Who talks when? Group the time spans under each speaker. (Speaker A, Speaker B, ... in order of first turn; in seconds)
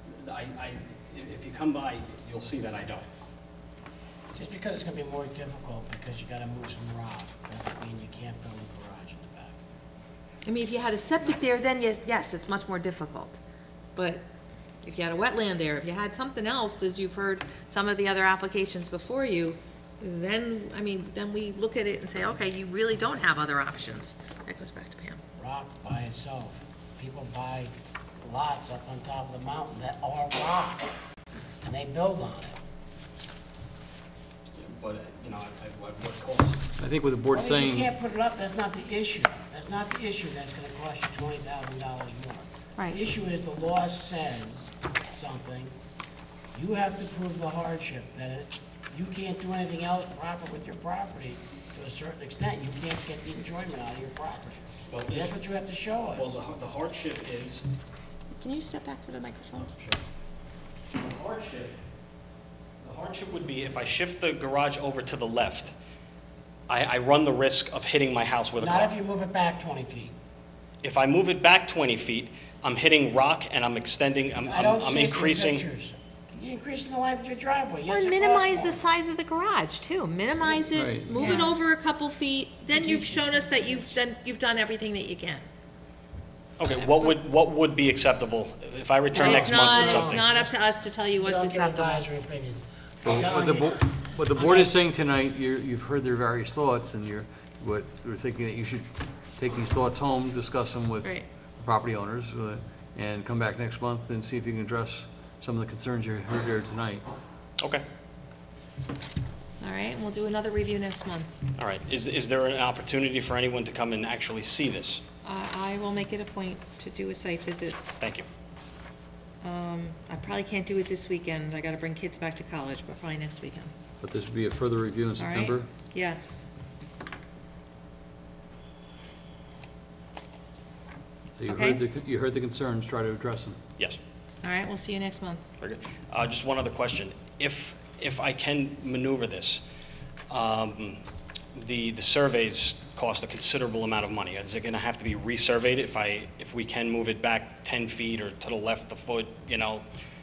Speaker A: 0.2-3.1, 34.6-36.6, 54.9-55.4, 56.1-57.7, 59.8-60.0, 61.0-61.8, 62.8-65.7, 66.7-68.9, 70.8-75.7, 86.6-90.2, 111.6-115.0, 118.0-118.3, 135.6-139.6, 140.3-141.0, 141.6-149.8
Speaker B: 4.3-9.6, 25.4-30.9, 31.6-32.6, 37.3-45.7, 46.5-56.4, 68.6-70.1, 74.4-78.8, 80.4-81.5, 82.7-84.0, 89.2-90.6, 91.2-93.8, 94.3-94.7
Speaker C: 10.4-13.4, 14.0-14.2, 14.8-25.2, 58.4-59.7, 77.9-85.5, 86.6-87.1, 89.1-92.1, 109.6-111.3, 115.2-117.8, 119.4-123.7, 125.2-126.5, 131.5-131.8, 134.4-135.4
Speaker D: 36.8-37.9, 80.7-81.4, 93.0-107.0, 124.0-125.7, 131.4-133.6